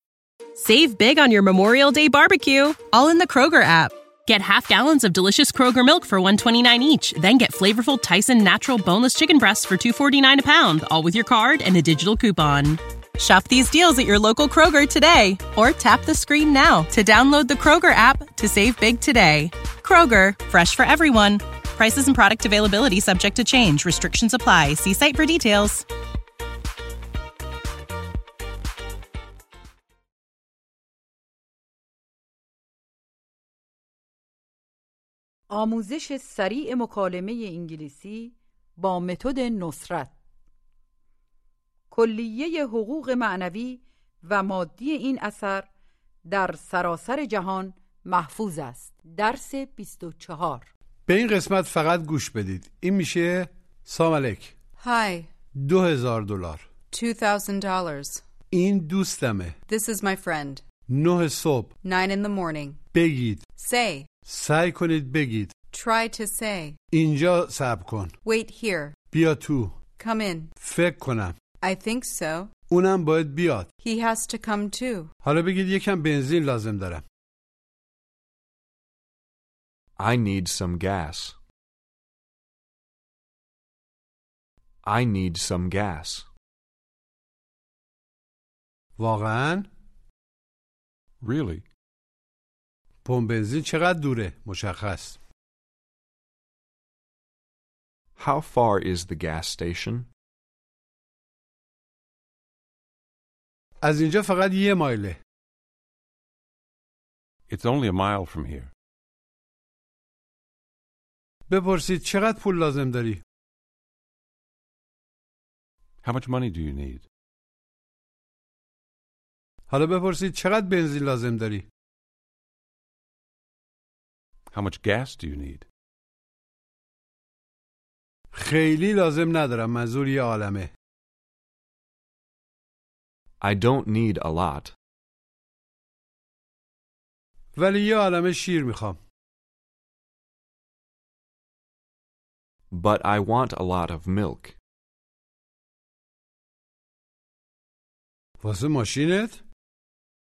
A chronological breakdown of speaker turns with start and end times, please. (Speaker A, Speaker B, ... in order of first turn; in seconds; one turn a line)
Speaker A: 0.6-25.8
Speaker B: 35.5-40.1
Speaker B: 41.9-45.7
Speaker B: 46.3-50.7
Speaker C: 51.1-54.5
Speaker D: 54.8-55.3
Speaker C: 55.6-56.6
Speaker D: 56.9-58.2
Speaker C: 58.5-59.5
Speaker D: 59.7-60.6
Speaker C: 60.9-61.7
Speaker D: 61.8-62.8
Speaker C: 62.9-63.4
Speaker D: 63.6-64.1
Speaker C: 64.2-65.5
Speaker D: 65.7-66.8
Speaker C: 66.9-68.1
Speaker D: 68.2-69.0
Speaker C: 69.1-69.7
Speaker D: 70.0-70.5
Speaker C: 70.6-71.3
Speaker D: 71.6-72.5
Speaker C: 72.7-73.7
Speaker D: 73.8-75.1
Speaker C: 75.2-77.0
Speaker E: 80.0-81.3
Speaker E: 84.8-86.3
Speaker C: 89.0-89.7
Speaker F: 91.2-91.6
Speaker C: 93.0-95.2
Speaker E: 98.2-100.1
Speaker C: 103.8-105.2
Speaker F: 107.5-108.7
Speaker C: 111.5-113.2
Speaker F: 116.0-117.0
Speaker C: 119.7-121.7
Speaker F: 124.5-125.7
Speaker C: 128.3-130.7
Speaker E: 133.4-134.7
Speaker C: 137.5-139.0
Speaker E: 142.7-144.6
Speaker C: 148.4-149.4